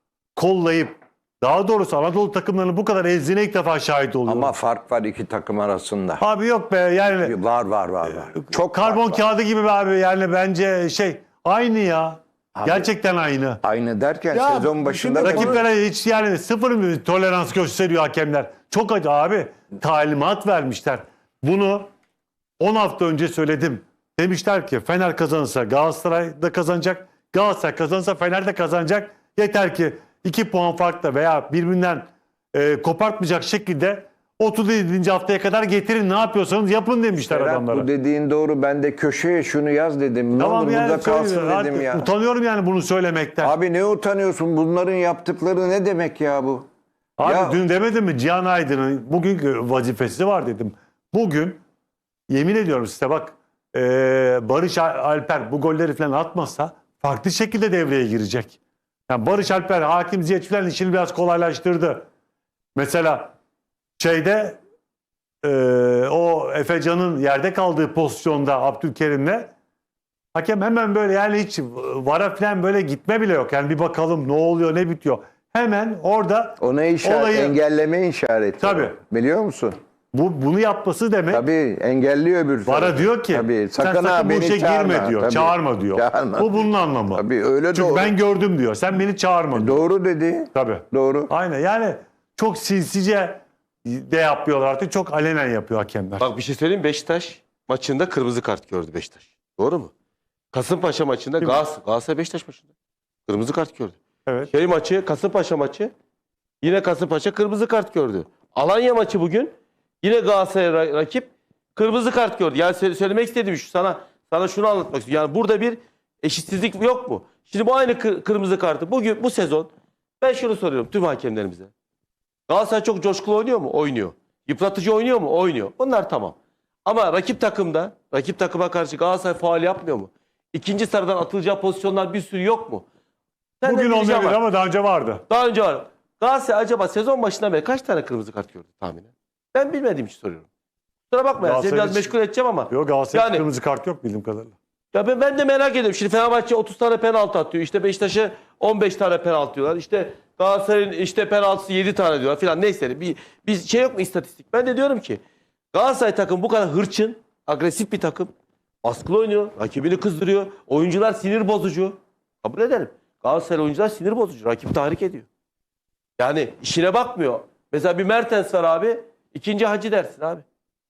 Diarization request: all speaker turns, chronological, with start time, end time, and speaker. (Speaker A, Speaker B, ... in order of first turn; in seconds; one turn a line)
Speaker A: 0.4-4.5
Speaker B: 4.3-6.2
Speaker A: 6.2-7.3
Speaker B: 7.2-9.2
Speaker A: 8.1-13.6
Speaker B: 12.6-12.9
Speaker B: 13.6-15.6
Speaker C: 14.3-15.6
Speaker A: 15.2-21.9
Speaker A: 22.6-37.9
Speaker B: 37.2-42.1
Speaker A: 40.4-43.5
Speaker B: 43.4-46.7
Speaker A: 47.2-51.6
Speaker B: 47.2-47.6
Speaker A: 52.3-58.6
Speaker A: 59.1-62.1
Speaker A: 62.8-63.3
Speaker A: 64.0-64.6
Speaker A: 65.4-69.5
Speaker A: 70.3-77.6
Speaker B: 76.6-79.8
Speaker A: 78.6-79.0
Speaker A: 80.1-81.4
Speaker B: 81.3-88.1
Speaker A: 82.7-89.8
Speaker B: 89.5-91.3
Speaker A: 90.5-96.3
Speaker C: 96.2-99.9
Speaker C: 100.5-102.7
Speaker C: 103.3-104.0
Speaker C: 104.5-105.9
Speaker C: 106.6-121.7
Speaker C: 122.5-132.8
Speaker C: 133.6-134.4
Speaker A: 133.7-135.2
Speaker C: 135.3-140.5
Speaker C: 141.1-143.4
Speaker A: 141.4-142.1
Speaker A: 142.7-144.6
Speaker C: 144.9-155.2
Speaker C: 155.7-158.3
Speaker C: 158.8-165.3
Speaker C: 166.2-170.4